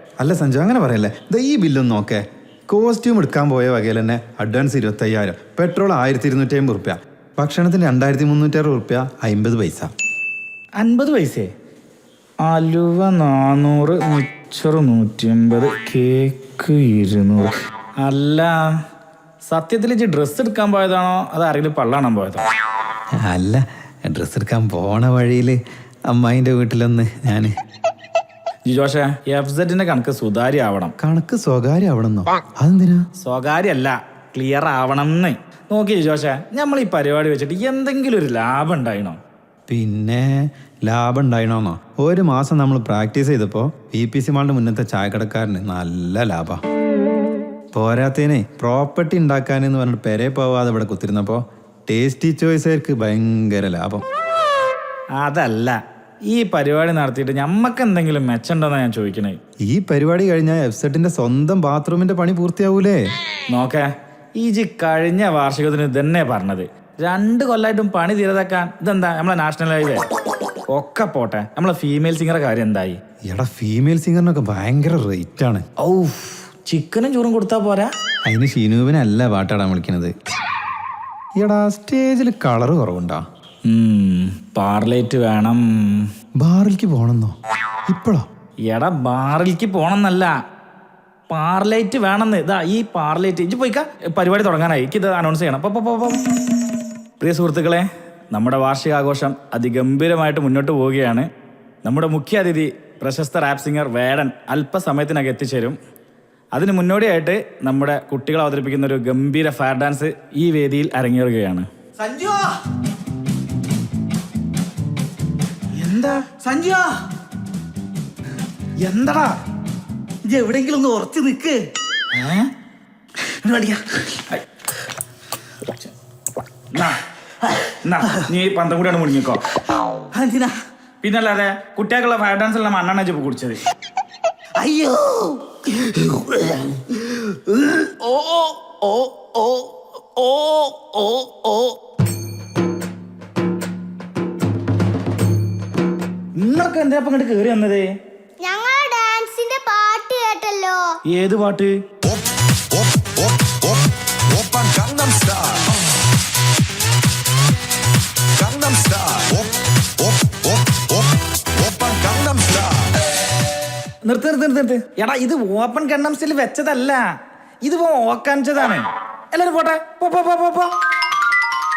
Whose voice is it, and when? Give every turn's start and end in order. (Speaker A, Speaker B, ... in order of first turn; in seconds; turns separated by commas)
Speaker A: 0.2-9.9, Speaker B: 10.8-11.5, Speaker B: 12.4-18.5, Speaker B: 19.5-22.4, Speaker A: 23.3-25.6, Speaker A: 26.1-27.5, Speaker B: 28.6-30.9, Speaker A: 31.0-33.0, Speaker B: 33.2-39.2, Speaker A: 39.7-46.6, Speaker A: 47.7-54.0, Speaker B: 55.2-55.8, Speaker B: 56.3-59.4, Speaker A: 59.7-63.0, Speaker B: 63.5-70.0, Speaker B: 70.7-73.0, Speaker A: 73.3-75.6, Speaker B: 75.8-77.9, Speaker A: 78.3-80.1, Speaker A: 81.4-83.2, Speaker B: 83.7-86.1, Speaker A: 86.4-87.3, Speaker A: 87.9-88.2, Speaker B: 88.7-90.3, Speaker B: 91.3-96.2, Speaker B: 97.2-101.3, Speaker B: 101.8-105.8, Speaker B: 106.5-111.7, Speaker C: 112.0-112.5, Speaker B: 115.7-116.2, Speaker C: 116.4-116.9, Speaker B: 118.8-119.4, Speaker C: 120.3-121.6, Speaker B: 122.1-122.5, Speaker C: 123.4-123.8, Speaker B: 127.8-129.4, Speaker C: 130.1-130.5, Speaker B: 131.0-133.6, Speaker C: 134.6-141.8, Speaker B: 146.4-147.9, Speaker D: 148.4-150.8, Speaker B: 151.1-151.7, Speaker E: 152.0-155.7, Speaker E: 158.4-162.9, Speaker B: 164.1-167.0, Speaker B: 167.6-170.7